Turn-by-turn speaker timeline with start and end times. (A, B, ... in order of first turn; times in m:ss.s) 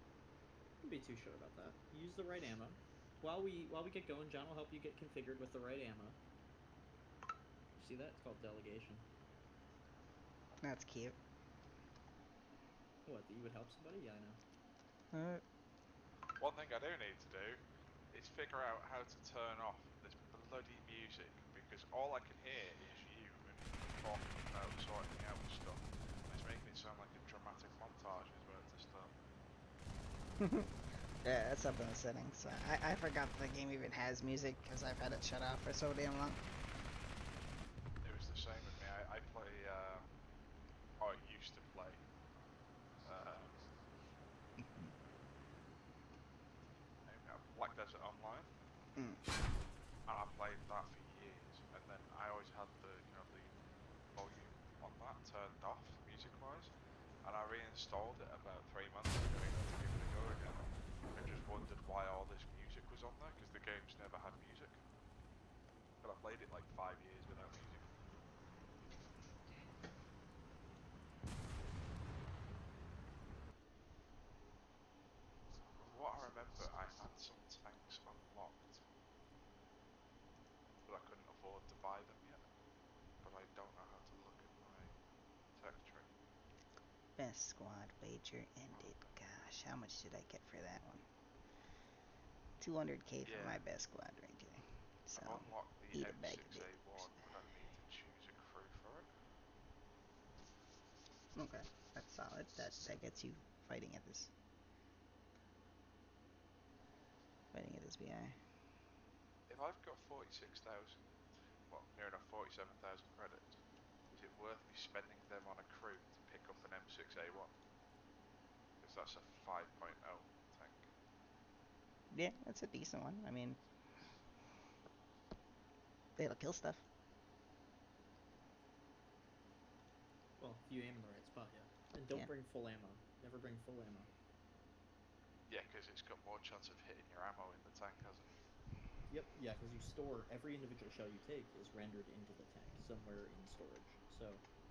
0:00.8-0:06.2 A
0:07.8-0:09.0 A
0:10.6-0:11.2 B
0:13.0-0:14.4 A
0:15.1-0:15.4 B
0:16.4-0:29.1 C
0:30.4-0:30.7 B
0:31.2-0:36.5 B
0:38.0-0:40.1 C
0:41.0-0:42.0 C
0:43.0-0:43.6 C
0:44.6-0:44.9 B
0:47.0-0:48.5 C
0:49.0-0:49.2 B
0:50.1-0:53.6 C
0:54.1-0:56.7 C
0:57.2-1:04.8 C
1:06.0-1:07.8 C
1:15.7-1:18.8 C
1:20.8-1:22.4 C
1:23.2-1:24.9 C
1:25.5-1:26.1 C
1:27.2-1:31.0 B
1:32.6-1:36.7 B
1:33.2-1:33.6 C
1:35.1-1:39.1 C
1:41.3-1:44.3 B
1:47.5-1:48.4 B
1:49.5-1:51.0 C
1:51.7-1:53.6 C
1:54.1-1:57.5 C
1:58.8-2:00.9 C
2:02.1-2:03.6 B
2:06.2-2:06.8 B
2:10.4-2:14.1 A
2:15.5-2:18.4 C
2:19.1-2:24.4 A